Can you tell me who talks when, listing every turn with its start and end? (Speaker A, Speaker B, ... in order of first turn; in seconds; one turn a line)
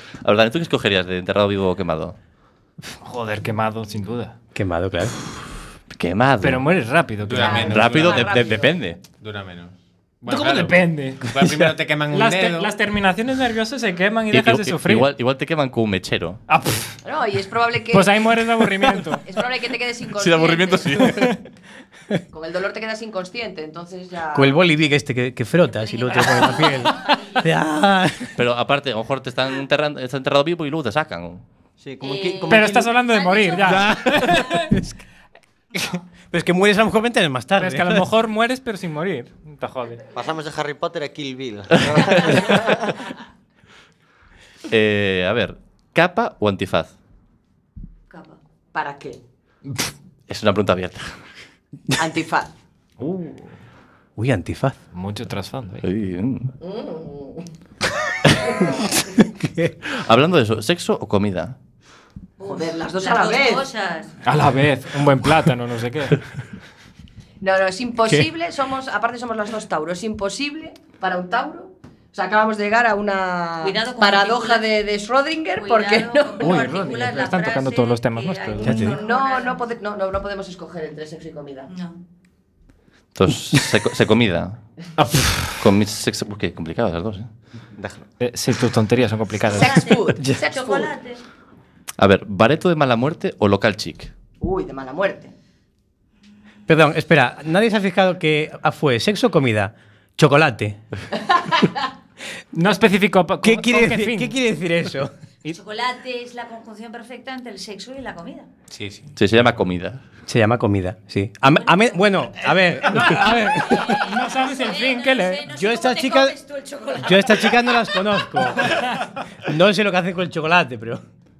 Speaker A: 0.2-2.2
Speaker B: 3.0-4.4
Speaker C: 4.5-5.1
Speaker A: 5.9-6.7
Speaker B: 6.4-8.4
Speaker D: 7.2-8.3
Speaker E: 7.4-8.7
Speaker A: 7.7-9.0
Speaker D: 9.1-12.7
Speaker B: 10.3-15.1
Speaker A: 14.3-16.4
Speaker B: 16.5-16.9
Speaker E: 17.0-18.2
Speaker B: 17.9-19.2
Speaker E: 19.2-21.3
Speaker A: 20.2-21.4
Speaker E: 22.3-24.6
Speaker C: 24.3-28.3
Speaker F: 25.6-27.5
Speaker A: 28.4-31.4
Speaker G: 31.8-32.9
Speaker F: 32.0-34.7
Speaker B: 32.5-34.7
Speaker C: 36.3-38.1
Speaker B: 37.6-40.0
Speaker G: 40.1-42.9
Speaker A: 44.7-46.9
Speaker F: 48.1-48.4
Speaker E: 48.7-49.2
Speaker A: 50.3-51.2
Speaker E: 52.0-52.5
Speaker B: 53.0-53.5
Speaker C: 54.2-54.8
Speaker B: 54.9-55.8
Speaker A: 55.8-56.5
Speaker E: 56.6-57.5
Speaker C: 59.4-59.7
Speaker A: 60.0-61.6
Speaker F: 62.4-64.2
Speaker E: 62.4-63.6
Speaker B: 64.2-66.2
Speaker E: 67.4-76.7
Speaker F: 73.6-74.7
Speaker F: 75.5-79.6
Speaker B: 76.4-78.9
Speaker C: 78.6-79.0
Speaker E: 78.8-81.7
Speaker F: 81.7-82.0
Speaker A: 83.2-84.6
Speaker B: 85.0-85.4
Speaker A: 85.6-87.3
Speaker G: 87.8-88.1
Speaker B: 88.2-89.8
Speaker E: 89.5-90.9
Speaker F: 89.5-91.2
Speaker A: 92.0-94.1
Speaker E: 94.4-95.3
Speaker C: 96.7-100.8
Speaker B: 102.5-104.4
Speaker C: 103.4-105.1
Speaker F: 105.5-108.5
Speaker D: 108.7-109.1
Speaker A: 109.2-110.0
Speaker C: 110.3-113.8
Speaker F: 111.5-112.1
Speaker B: 112.7-115.4
Speaker F: 113.4-118.2
Speaker C: 115.5-116.3
Speaker C: 117.0-118.8
Speaker C: 119.4-121.0